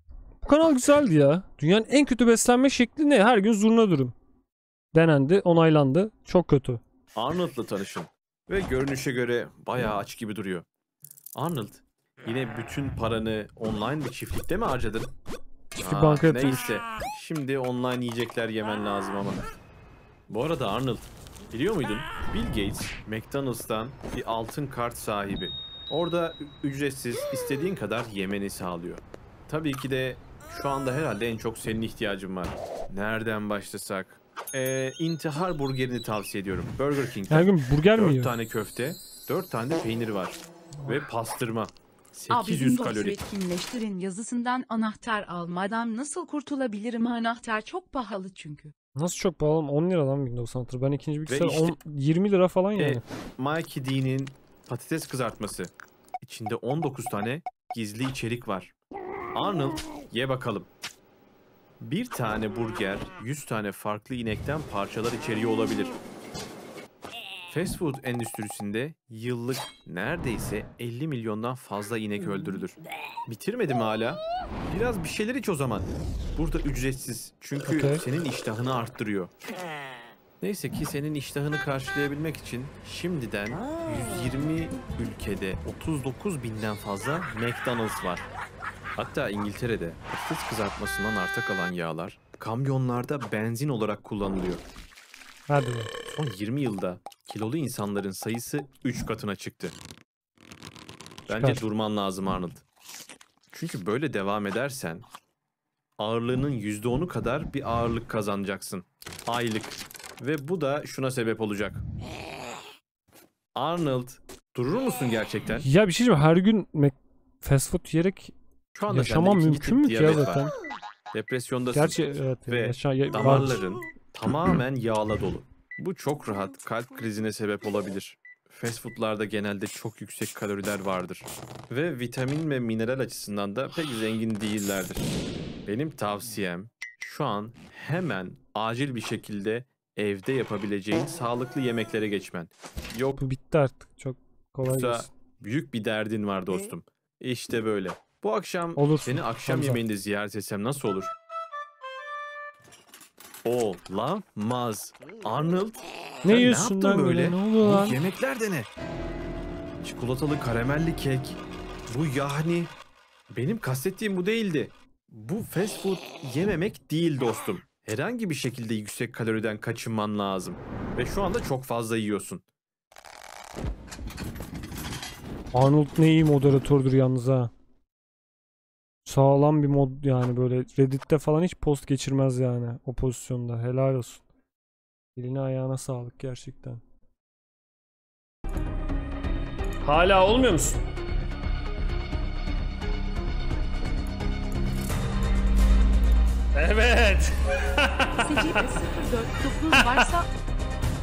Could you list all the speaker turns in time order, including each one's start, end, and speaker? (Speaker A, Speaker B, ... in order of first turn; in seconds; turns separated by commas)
Speaker A: 0.4-4.1, Speaker A: 4.9-6.8, Speaker B: 7.2-10.7, Speaker B: 11.3-15.1, Speaker A: 15.8-16.8, Speaker B: 15.8-19.4, Speaker B: 20.3-43.2, Speaker A: 37.3-38.3, Speaker A: 40.8-41.0, Speaker C: 42.3-48.7, Speaker A: 49.0-53.0, Speaker B: 51.3-51.8, Speaker B: 52.8-58.7, Speaker B: 59.3-60.7, Speaker B: 61.8-66.0, Speaker B: 67.5-79.3, Speaker A: 77.7-78.0, Speaker B: 80.4-88.3, Speaker B: 89.0-94.6, Speaker A: 95.5-95.9, Speaker B: 96.1-99.8, Speaker A: 101.3-101.6, Speaker B: 101.3-102.6, Speaker B: 103.5-105.1, Speaker B: 106.0-111.8, Speaker B: 113.5-115.7, Speaker A: 115.6-118.3, Speaker B: 118.7-120.4, Speaker A: 118.9-120.5, Speaker B: 121.1-135.1, Speaker A: 121.7-123.6, Speaker B: 135.7-143.2, Speaker A: 143.2-145.1, Speaker B: 144.6-151.1, Speaker A: 148.8-149.8, Speaker B: 153.4-158.7, Speaker A: 156.2-158.0, Speaker B: 159.8-162.7, Speaker B: 163.3-172.4, Speaker A: 175.5-177.5, Speaker A: 179.1-184.2, Speaker A: 185.2-186.8, Speaker A: 189.8-190.8, Speaker A: 196.5-198.6, Speaker C: 198.2-200.3, Speaker A: 199.7-200.1